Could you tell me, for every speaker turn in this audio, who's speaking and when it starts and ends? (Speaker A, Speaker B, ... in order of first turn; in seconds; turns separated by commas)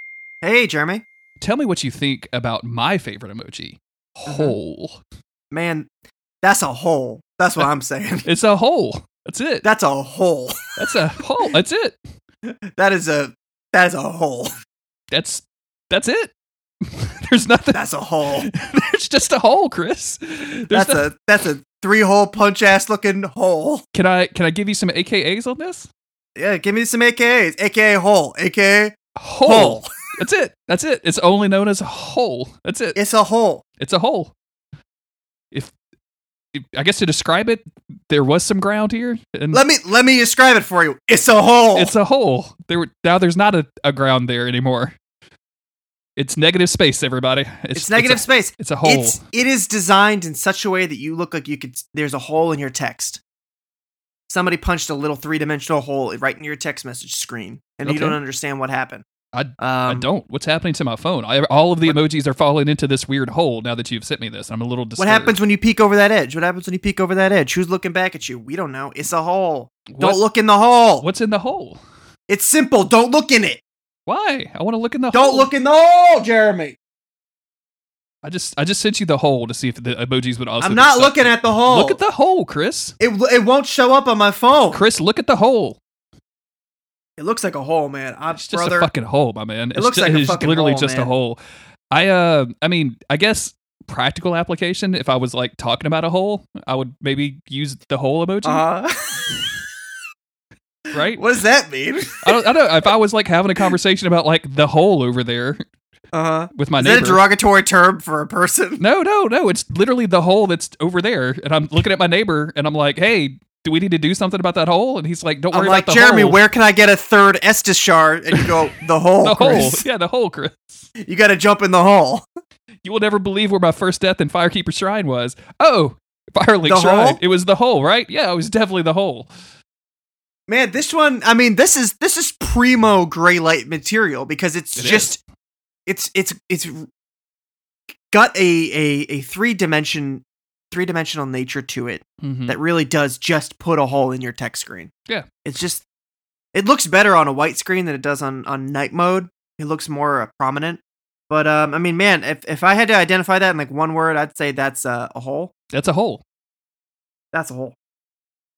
Speaker A: 0.4-1.0, Speaker B: 1.4-5.0, Speaker A: 4.3-4.5, Speaker A: 5.5-5.9, Speaker A: 6.4-8.3, Speaker B: 8.2-9.7, Speaker A: 9.6-10.8, Speaker B: 10.8-12.0, Speaker A: 12.5-14.5, Speaker B: 15.1-16.3, Speaker B: 16.8-17.8, Speaker A: 17.7-18.5, Speaker B: 18.4-21.1, Speaker A: 20.7-23.8, Speaker B: 23.9-25.9, Speaker A: 26.4-29.9, Speaker B: 29.1-33.0, Speaker A: 32.9-33.6, Speaker B: 33.8-34.3, Speaker B: 36.5-39.6, Speaker A: 39.5-41.9, Speaker B: 41.7-44.9, Speaker B: 46.2-49.2, Speaker A: 47.7-53.2, Speaker A: 54.3-59.0, Speaker B: 57.8-58.2, Speaker B: 59.3-65.3, Speaker A: 59.6-60.1, Speaker A: 65.0-71.0, Speaker B: 69.9-70.2, Speaker B: 71.0-71.8, Speaker A: 72.3-73.6, Speaker B: 74.1-75.5, Speaker A: 75.1-76.8, Speaker B: 78.2-83.0, Speaker A: 80.6-82.0, Speaker A: 83.0-84.8, Speaker B: 84.7-85.8, Speaker A: 87.2-88.9, Speaker B: 88.3-91.4, Speaker A: 89.7-91.1, Speaker B: 91.9-98.6, Speaker A: 98.4-99.5, Speaker B: 100.9-101.2, Speaker A: 101.1-102.3, Speaker B: 102.2-105.6, Speaker A: 106.1-108.8, Speaker B: 106.5-107.2, Speaker B: 108.8-116.4, Speaker A: 115.5-119.8, Speaker B: 119.2-120.9, Speaker A: 121.0-122.2, Speaker B: 122.8-129.3, Speaker A: 126.6-127.2, Speaker A: 130.5-135.2, Speaker B: 134.8-135.2, Speaker A: 135.9-136.9, Speaker A: 138.1-144.9, Speaker B: 142.2-142.6, Speaker A: 145.4-145.8, Speaker A: 146.5-155.5, Speaker B: 155.7-156.2, Speaker A: 157.3-157.8